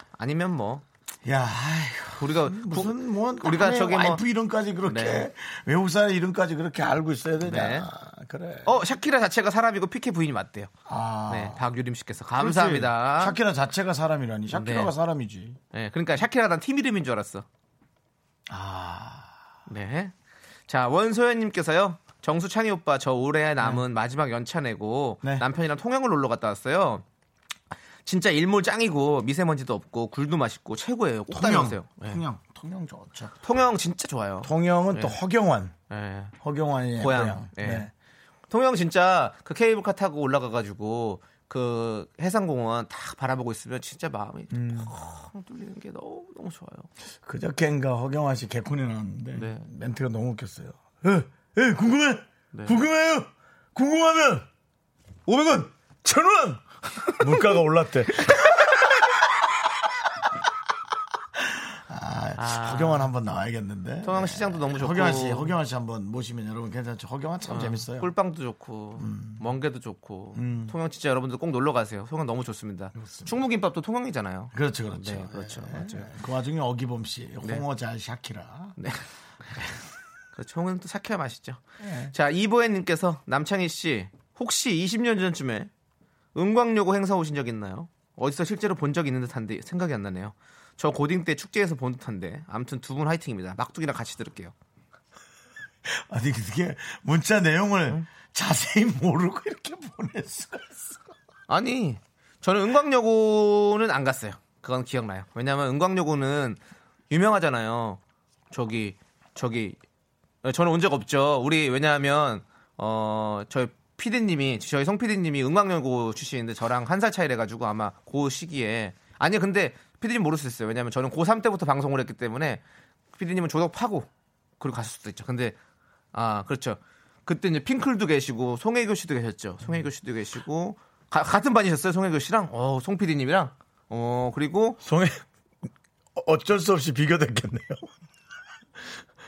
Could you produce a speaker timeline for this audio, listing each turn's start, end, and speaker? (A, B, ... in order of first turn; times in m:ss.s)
0:00.2-0:00.8 A
0:01.2-0:08.8 B
0:02.2-0:04.2 A
0:04.8-0:05.3 A
0:07.4-0:07.9 A
0:08.6-0:10.7 A
0:10.9-0:11.6 B
0:11.3-0:13.4 A
0:12.4-0:15.6 B
0:14.5-0:14.9 A
0:15.7-0:17.5 A
0:18.5-0:19.3 B
0:19.7-0:20.1 A
0:20.7-0:27.0 A
0:28.0-0:32.2 A
0:31.3-0:33.4 B
0:33.4-0:35.2 A
0:34.4-0:35.8 B
0:35.9-0:36.3 A
0:36.4-0:37.9 B
0:37.0-0:37.9 A
0:38.5-0:46.9 A
0:44.5-0:44.9 B
0:47.2-0:54.5 B
0:49.4-0:49.7 A
0:52.5-0:52.8 A
0:55.3-0:59.0 B
1:01.4-1:08.1 B
1:02.4-1:03.1 A
1:04.0-1:05.6 A
1:07.5-1:16.1 A
1:09.0-1:09.5 B
1:10.4-1:10.8 B
1:13.0-1:13.3 B
1:14.5-1:18.8 B
1:18.8-1:19.8 A
1:20.4-1:25.7 A
1:21.8-1:22.1 B
1:26.4-1:34.5 A
1:35.9-1:41.1 B
1:41.5-1:48.0 A
1:48.5-1:49.8 A
1:50.4-2:02.6 A
2:03.1-2:04.1 A
2:04.6-2:05.6 A
2:06.1-2:14.8 A
2:14.8-2:15.2 B
2:16.2-2:17.9 B